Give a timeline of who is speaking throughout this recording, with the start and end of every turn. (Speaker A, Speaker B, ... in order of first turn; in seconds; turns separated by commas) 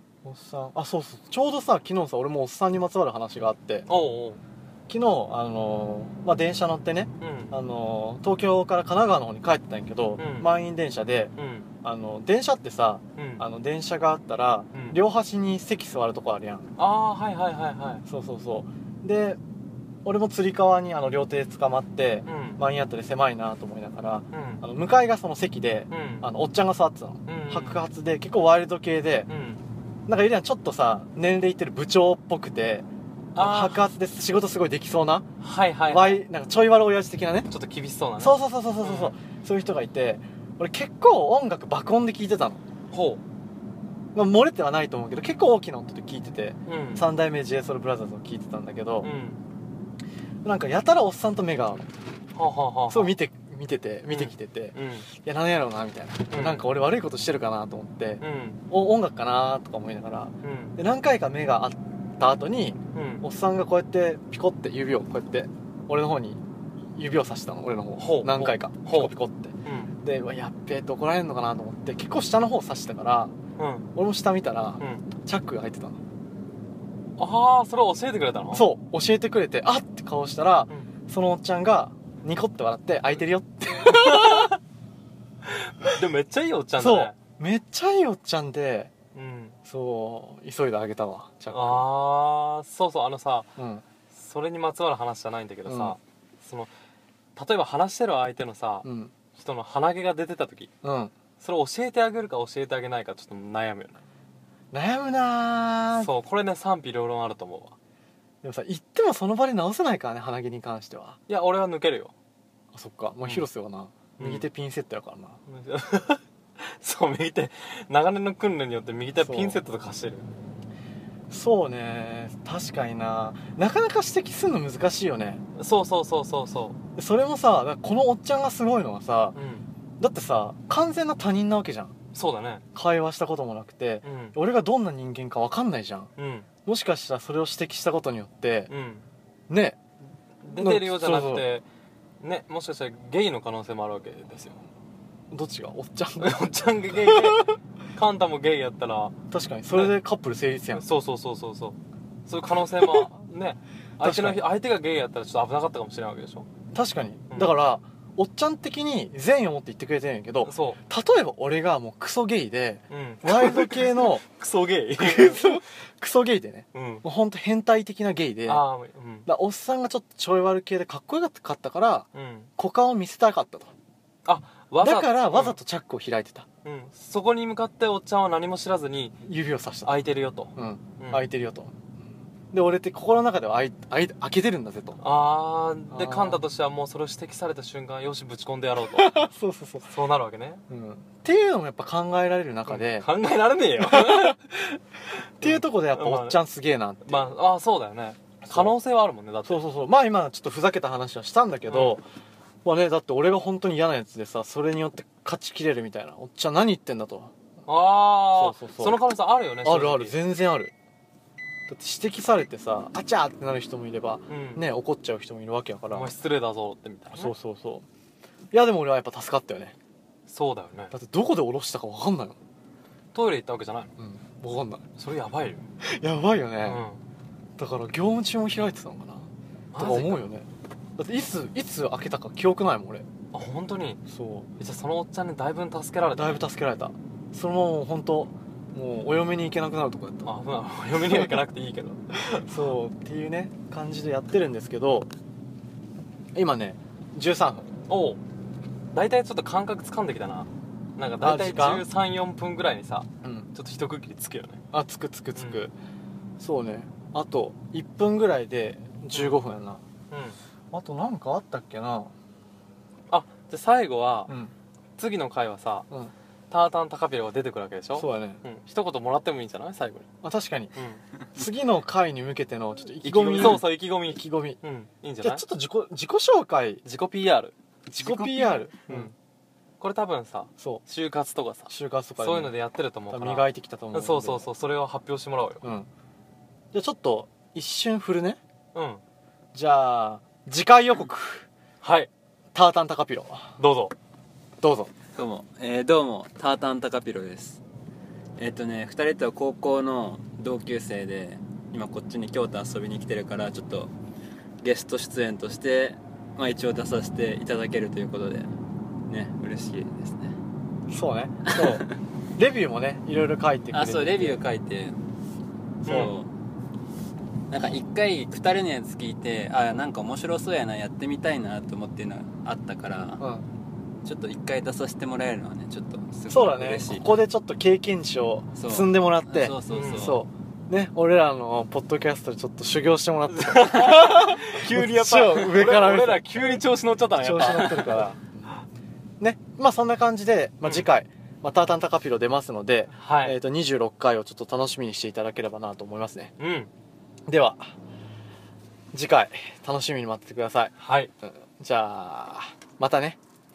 Speaker A: 0.2-3.9, Speaker B: 3.9-4.4, Speaker A: 4.9-16.7, Speaker B: 7.2-7.5, Speaker B: 10.2-10.5, Speaker B: 11.4-11.7, Speaker B: 13.2-13.4, Speaker B: 16.8-18.0, Speaker A: 18.1-19.4, Speaker A: 20.0-29.3, Speaker B: 22.2-22.6, Speaker B: 24.3-24.6, Speaker B: 25.9-26.3, Speaker B: 27.2-27.8, Speaker B: 29.3-29.6, Speaker A: 30.1-35.3, Speaker B: 33.3-33.8, Speaker B: 35.4-36.2, Speaker A: 35.9-37.5, Speaker B: 37.5-39.1, Speaker A: 38.2-42.6, Speaker B: 42.9-43.2, Speaker A: 44.1-49.1, Speaker B: 46.7-47.1, Speaker B: 49.0-49.4, Speaker A: 50.4-51.9, Speaker B: 52.3-53.1, Speaker A: 52.9-73.3, Speaker B: 54.1-55.1, Speaker B: 56.3-56.6, Speaker B: 58.2-58.6, Speaker B: 60.4-60.8, Speaker B: 62.9-63.2, Speaker B: 68.0-69.1, Speaker B: 69.6-69.9, Speaker B: 73.6-73.9, Speaker A: 73.9-76.0, Speaker B: 74.8-75.1, Speaker B: 77.2-78.7, Speaker A: 78.5-84.5, Speaker B: 83.8-84.6, Speaker B: 85.5-87.2, Speaker A: 86.8-88.9, Speaker B: 89.1-89.6, Speaker A: 89.7-91.9, Speaker B: 91.5-93.5, Speaker A: 93.6-93.8, Speaker B: 94.1-96.7, Speaker A: 95.7-96.0, Speaker B: 97.3-100.7, Speaker A: 98.8-99.1, Speaker A: 100.8-101.1, Speaker B: 101.4-104.0, Speaker A: 104.7-106.1, Speaker B: 106.0-107.8, Speaker A: 108.4-111.2, Speaker B: 111.3-112.1, Speaker A: 112.7-115.4, Speaker B: 114.2-114.5, Speaker B: 115.5-120.3, Speaker A: 119.2-119.6, Speaker A: 121.3-125.4, Speaker B: 125.5-126.8, Speaker A: 127.0-129.4, Speaker B: 129.3-129.7, Speaker A: 130.0-131.9, Speaker B: 132.1-132.6, Speaker A: 132.7-136.1, Speaker B: 134.0-134.3, Speaker B: 136.2-136.5, Speaker A: 136.7-138.7, Speaker B: 138.7-139.1, Speaker A: 139.5-139.8, Speaker B: 140.4-141.7, Speaker A: 140.6-141.5, Speaker B: 142.2-144.6, Speaker A: 145.3-146.4, Speaker B: 146.2-149.1, Speaker A: 146.9-147.5, Speaker A: 149.3-150.8, Speaker B: 150.7-156.5, Speaker A: 154.0-154.4, Speaker A: 156.7-164.2, Speaker B: 157.3-157.6, Speaker B: 160.4-160.8, Speaker B: 162.9-165.6, Speaker A: 164.9-168.6, Speaker B: 166.7-167.0, Speaker B: 168.4-169.3, Speaker A: 169.2-173.7, Speaker B: 172.1-172.5, Speaker B: 174.2-175.6, Speaker A: 174.8-176.5, Speaker B: 176.6-179.2, Speaker A: 179.2-180.0, Speaker B: 179.8-181.3, Speaker A: 180.6-185.0, Speaker B: 185.0-189.2, Speaker A: 185.9-186.4, Speaker A: 188.8-189.9, Speaker B: 189.8-190.6, Speaker A: 190.7-193.1, Speaker B: 192.7-194.8, Speaker A: 193.8-194.4, Speaker A: 195.4-197.4, Speaker B: 195.4-196.4, Speaker B: 197.1-199.6, Speaker A: 198.4-198.7, Speaker A: 199.4-202.1, Speaker B: 201.7-202.0, Speaker A: 202.6-207.3, Speaker B: 207.7-210.2, Speaker A: 208.3-209.0, Speaker A: 209.6-210.7, Speaker A: 211.7-216.1, Speaker B: 214.3-214.6, Speaker B: 215.9-217.3, Speaker A: 217.1-217.8, Speaker A: 218.5-219.8, Speaker B: 220.3-220.9, Speaker A: 220.9-222.4, Speaker B: 223.1-223.9, Speaker A: 224.0-224.9, Speaker B: 225.0-225.6, Speaker A: 225.8-226.8, Speaker B: 226.6-227.0, Speaker A: 227.6-233.1, Speaker B: 229.7-230.2, Speaker B: 233.3-234.0, Speaker A: 234.1-234.5, Speaker B: 234.6-236.4, Speaker A: 236.1-240.3, Speaker B: 240.2-242.0, Speaker A: 241.0-241.4, Speaker A: 242.3-245.1, Speaker A: 246.3-247.7, Speaker B: 247.9-248.2, Speaker B: 248.9-254.6, Speaker A: 251.2-251.8, Speaker A: 253.2-253.5, Speaker A: 254.7-255.7, Speaker B: 255.3-255.7, Speaker A: 256.4-259.8, Speaker B: 259.1-259.4, Speaker B: 260.1-260.4, Speaker A: 260.7-262.1, Speaker B: 263.1-264.3, Speaker A: 264.3-264.5, Speaker B: 265.0-265.9, Speaker B: 266.5-270.1, Speaker A: 267.9-268.4, Speaker A: 270.2-270.8, Speaker B: 270.7-271.0, Speaker A: 271.3-274.6, Speaker B: 273.0-275.4, Speaker A: 275.2-276.8, Speaker B: 276.8-277.5, Speaker A: 277.9-279.1, Speaker C: 278.2-278.7, Speaker B: 278.8-279.1, Speaker B: 279.8-285.6, Speaker A: 281.7-282.5, Speaker A: 283.1-284.5, Speaker A: 285.6-285.9, Speaker A: 286.7-288.4, Speaker B: 288.7-289.0, Speaker A: 289.5-291.5, Speaker B: 291.8-292.1, Speaker A: 292.5-293.6, Speaker B: 293.6-293.9, Speaker A: 294.6-294.9, Speaker C: 295.1-297.6, Speaker C: 298.4-303.9, Speaker C: 304.6-308.5, Speaker C: 309.1-310.4, Speaker A: 310.9-314.4, Speaker C: 313.7-315.0, Speaker A: 315.8-316.1, Speaker C: 315.8-316.3, Speaker B: 315.9-316.1, Speaker C: 317.5-323.2, Speaker A: 323.2-323.5, Speaker C: 324.0-327.1, Speaker A: 326.3-338.6, Speaker C: 328.5-330.2, Speaker B: 329.7-330.1, Speaker B: 333.3-338.1, Speaker A: 339.2-346.3, Speaker B: 340.6-340.9, Speaker B: 342.9-343.4, Speaker B: 346.4-346.7, Speaker A: 347.3-347.7, Speaker A: 348.9-353.2, Speaker B: 350.8-351.1